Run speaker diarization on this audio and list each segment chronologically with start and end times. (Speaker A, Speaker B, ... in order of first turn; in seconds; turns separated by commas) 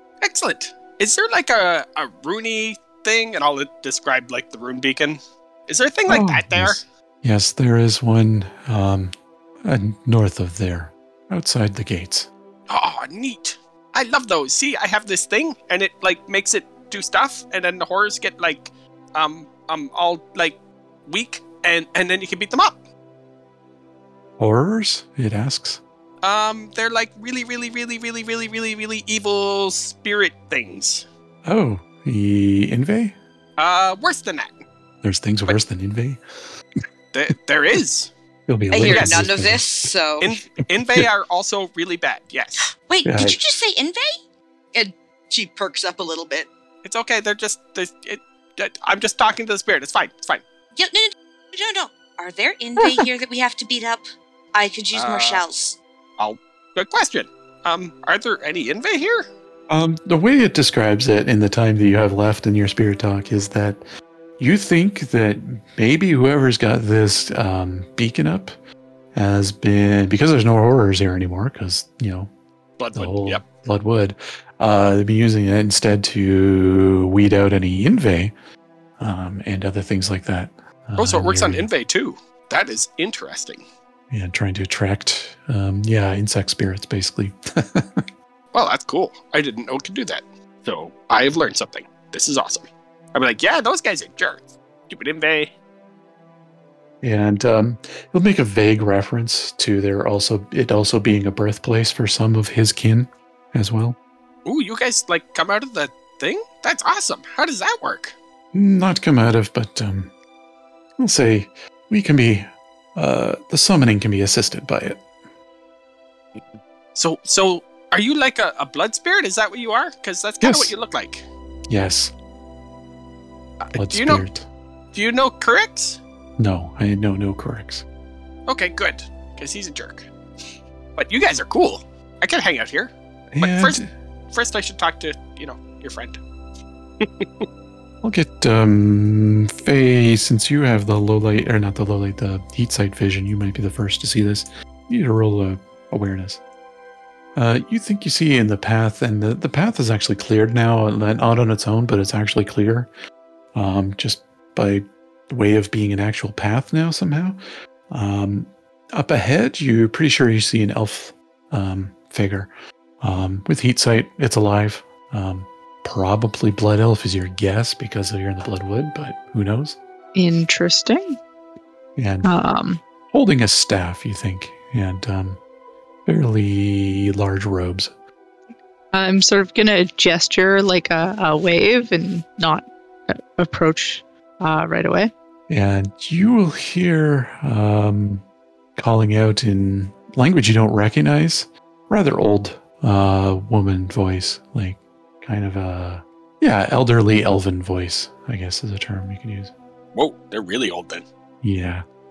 Speaker A: 0.2-6.8, Speaker B: 6.1-9.1, Speaker B: 9.6-12.3, Speaker A: 12.7-22.8, Speaker B: 24.4-25.8, Speaker A: 26.2-31.1, Speaker B: 31.4-33.1, Speaker A: 33.6-34.6, Speaker B: 35.0-36.2, Speaker A: 37.1-38.1, Speaker B: 38.5-39.7, Speaker C: 38.7-40.3, Speaker A: 38.9-39.3, Speaker A: 40.2-42.7, Speaker B: 40.8-41.1, Speaker C: 42.8-44.2, Speaker B: 43.0-43.4, Speaker C: 44.7-46.5, Speaker A: 46.8-50.4, Speaker C: 50.8-55.8, Speaker D: 52.8-53.1, Speaker A: 54.9-55.5, Speaker A: 56.2-59.3, Speaker B: 59.7-63.8, Speaker B: 64.4-68.5, Speaker B: 69.2-72.3, Speaker A: 72.8-73.4, Speaker B: 73.0-78.3, Speaker B: 79.0-81.7, Speaker A: 81.0-83.6, Speaker B: 84.1-88.0, Speaker A: 88.5-95.5, Speaker B: 97.0-104.0, Speaker A: 104.5-108.2, Speaker B: 108.5-110.1, Speaker B: 111.0-115.0, Speaker A: 117.0-121.2, Speaker B: 120.4-120.7, Speaker B: 121.7-122.1, Speaker A: 123.6-124.2, Speaker B: 123.8-124.5, Speaker A: 124.9-126.0, Speaker B: 126.4-127.8, Speaker A: 128.5-130.1, Speaker A: 131.0-133.8, Speaker B: 133.3-133.9, Speaker A: 134.3-136.2, Speaker A: 137.0-137.5, Speaker B: 138.0-146.4, Speaker B: 147.4-152.9, Speaker B: 153.6-157.4, Speaker B: 157.9-169.8, Speaker D: 170.2-171.2, Speaker B: 172.0-172.3, Speaker D: 172.2-172.8, Speaker B: 173.1-175.4, Speaker B: 176.1-177.9, Speaker D: 178.9-185.1, Speaker B: 185.5-188.2, Speaker B: 188.8-199.5, Speaker A: 199.9-201.1, Speaker B: 201.4-201.8